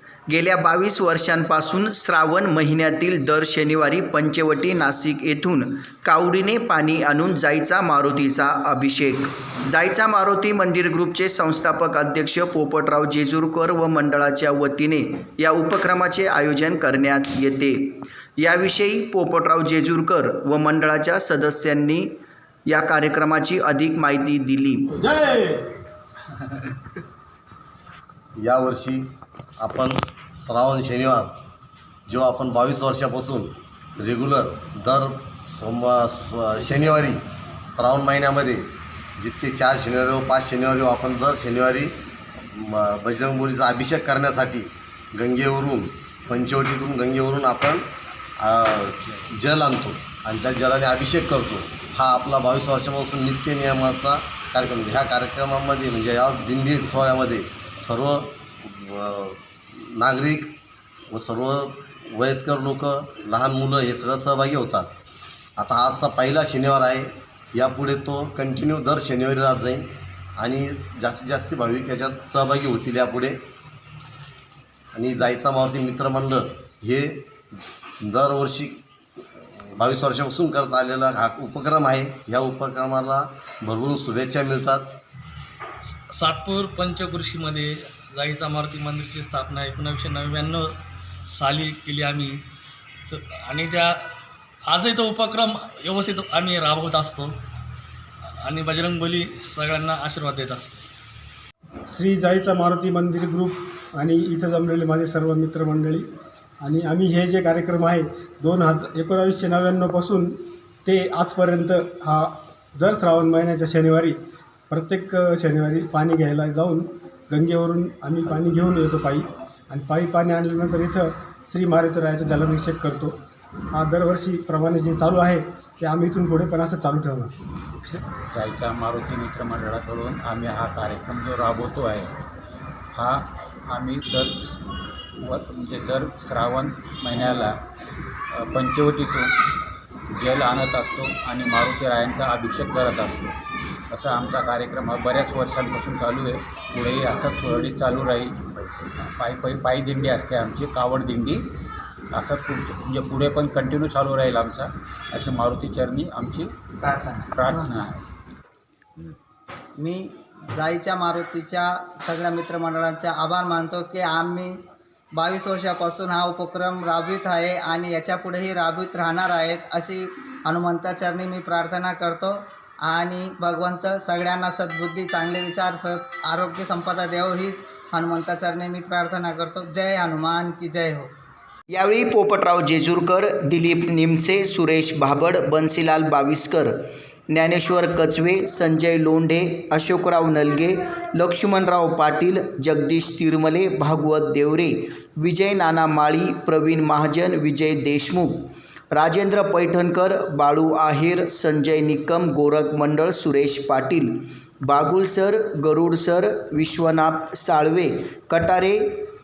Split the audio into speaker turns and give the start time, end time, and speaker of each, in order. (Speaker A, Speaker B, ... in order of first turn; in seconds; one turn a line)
Speaker A: 0.3-22.1
Speaker A: 22.7-25.0
Speaker B: 25.0-25.7
Speaker C: 28.4-29.1
Speaker C: 29.6-31.3
Speaker C: 32.1-42.0
Speaker C: 42.5-47.9
Speaker C: 48.4-60.5
Speaker C: 61.1-64.9
Speaker C: 65.6-73.4
Speaker C: 74.9-77.3
Speaker C: 78.0-78.8
Speaker C: 79.6-84.9
Speaker D: 86.1-90.8
Speaker D: 91.3-92.4
Speaker D: 93.1-94.1
Speaker D: 94.7-97.4
Speaker D: 98.4-100.8
Speaker B: 101.9-106.1
Speaker B: 106.6-114.2
Speaker B: 114.7-123.2
Speaker B: 123.7-127.3
Speaker E: 127.9-132.1
Speaker E: 132.9-134.6
Speaker E: 135.2-137.6
Speaker E: 138.3-139.3
Speaker E: 140.1-143.3
Speaker E: 143.9-148.4
Speaker E: 149.1-151.4
Speaker E: 152.1-156.5
Speaker F: 156.8-157.8
Speaker E: 157.3-158.0
Speaker F: 159.8-164.6
Speaker F: 165.2-181.1
Speaker A: 181.7-186.8
Speaker A: 187.3-209.0